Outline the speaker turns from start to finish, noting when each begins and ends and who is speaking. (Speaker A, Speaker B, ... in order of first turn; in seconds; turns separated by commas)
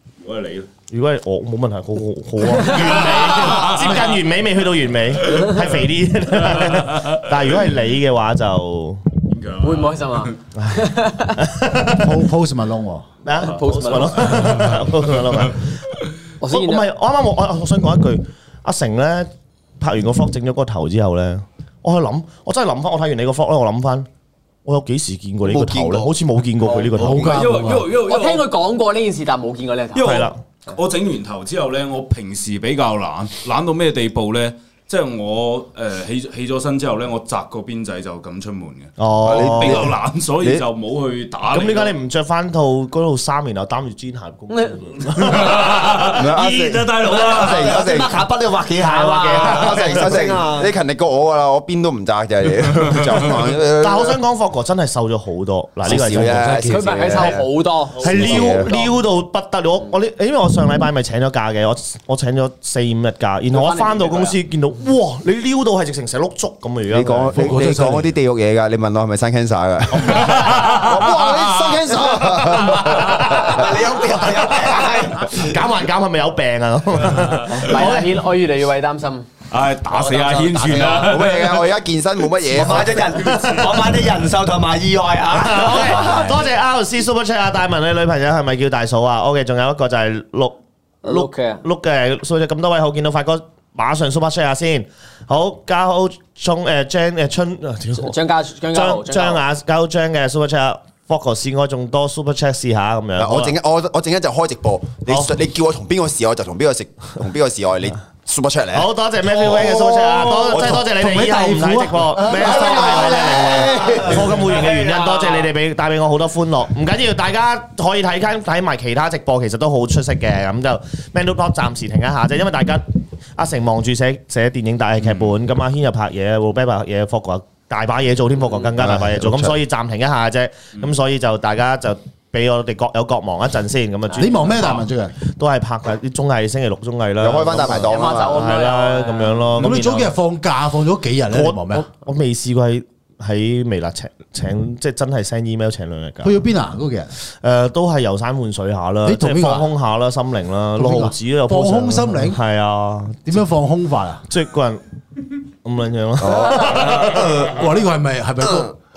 Speaker A: 0.2-0.7, Speaker B: 0.9-9.0, Speaker A: 2.7-4.1, Speaker A: 5.3-5.6, Speaker A: 6.5-7.1, Speaker A: 9.3-10.3, Speaker C: 9.6-11.4, Speaker B: 10.6-12.1, Speaker D: 12.0-13.1, Speaker B: 13.2-15.7, Speaker C: 13.4-14.6, Speaker A: 13.4-15.5, Speaker C: 16.4-16.9, Speaker B: 16.5-24.1, Speaker B: 24.7-27.5, Speaker E: 25.4-26.1, Speaker C: 26.6-26.9, Speaker D: 26.9-27.9, Speaker A: 27.2-28.5, Speaker C: 27.9-30.2, Speaker A: 29.9-42.0, Speaker B: 30.0-30.4, Speaker B: 39.0-39.9, Speaker E: 39.2-40.6, Speaker B: 41.5-46.2, Speaker C: 44.5-44.8, Speaker A: 45.2-47.8, Speaker E: 46.1-48.2, Speaker F: 47.0-50.7, Speaker B: 48.8-50.1, Speaker E: 49.4-54.2, Speaker B: 53.8-57.4, Speaker E: 55.8-57.5, Speaker D: 56.2-56.6, Speaker C: 56.6-58.7, Speaker B: 58.0-67.4, Speaker E: 58.0-58.9, Speaker C: 63.5-64.4, Speaker E: 66.9-73.4, Speaker D: 67.3-68.1, Speaker F: 71.2-71.6, Speaker B: 72.7-73.7, Speaker F: 73.3-75.4, Speaker B: 74.7-78.1, Speaker C: 77.5-79.3, Speaker A: 79.5-81.7, Speaker C: 80.2-80.9, Speaker E: 81.0-83.0, Speaker F: 82.5-86.4, Speaker B: 83.3-83.7, Speaker B: 85.3-98.2, Speaker C: 91.0-91.6, Speaker C: 97.9-99.4, Speaker B: 98.7-103.5, Speaker E: 103.2-110.8, Speaker B: 108.7-140.2, Speaker D: 110.3-113.7, Speaker E: 112.3-114.3, Speaker F: 112.5-113.8, Speaker F: 114.5-115.0, Speaker E: 128.8-129.6, Speaker D: 134.2-135.2, Speaker E: 137.2-138.5, Speaker C: 137.8-139.5, Speaker D: 139.6-141.9, Speaker B: 141.3-146.4, Speaker D: 146.2-147.1, Speaker B: 147.4-153.2, Speaker D: 149.1-149.7, Speaker D: 150.8-152.4, Speaker D: 153.2-154.3, Speaker B: 154.3-154.8, Speaker B: 155.6-157.2, Speaker E: 156.2-157.2, Speaker F: 157.1-157.4, Speaker D: 157.1-158.7